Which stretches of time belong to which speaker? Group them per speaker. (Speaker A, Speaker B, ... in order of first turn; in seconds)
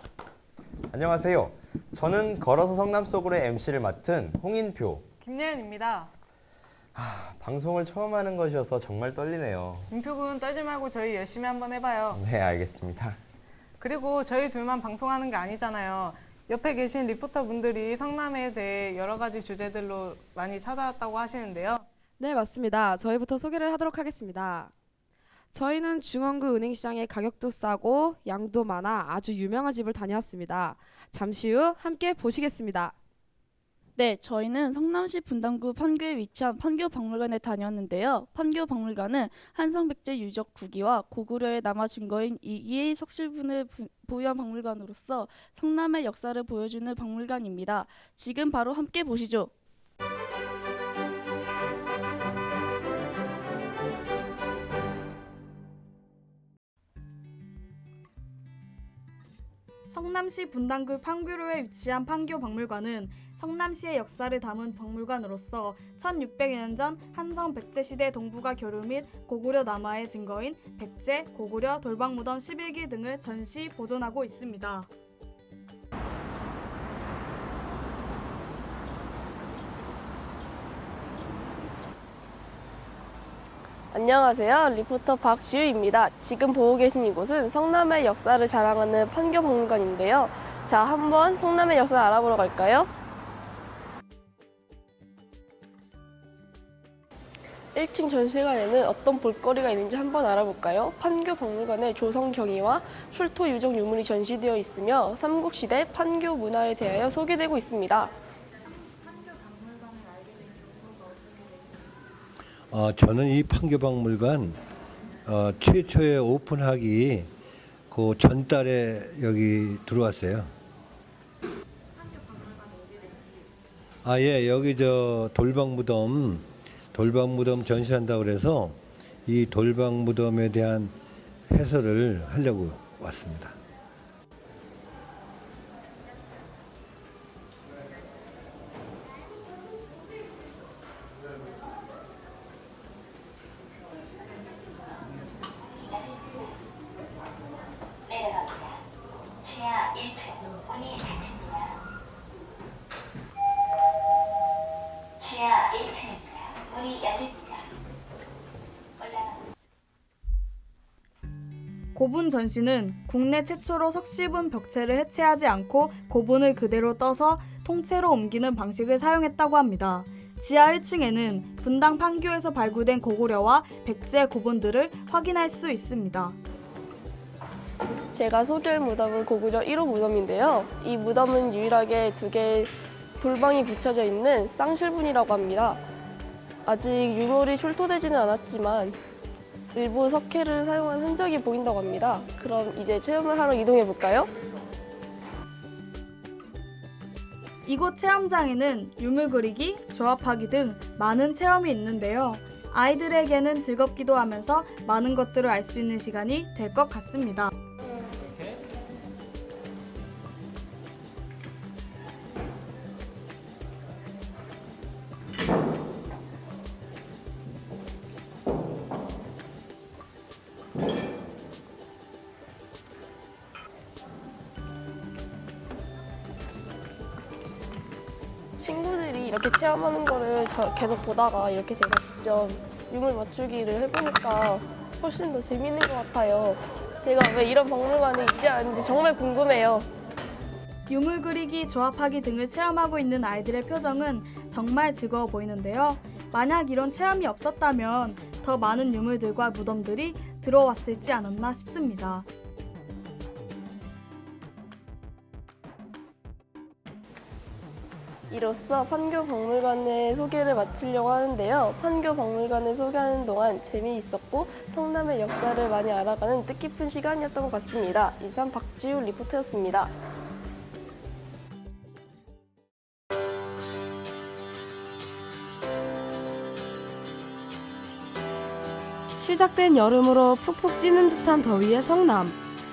Speaker A: 0.9-5.0, 7.0-9.9, 12.1-13.2
Speaker B: 5.2-6.1, 9.9-12.2, 13.8-21.9
Speaker C: 22.2-24.7, 25.5-32.9, 279.2-282.4
Speaker D: 34.0-49.5
Speaker E: 59.9-74.9, 161.9-176.4, 197.7-207.5, 240.9-252.3
Speaker F: 83.9-92.9, 97.7-108.1, 178.2-185.8, 186.7-189.0, 189.7-194.3, 228.6-239.9, 258.3-269.9
Speaker G: 112.7-114.6, 115.2-117.3, 117.9-120.5, 124.0-130.9, 131.5-133.6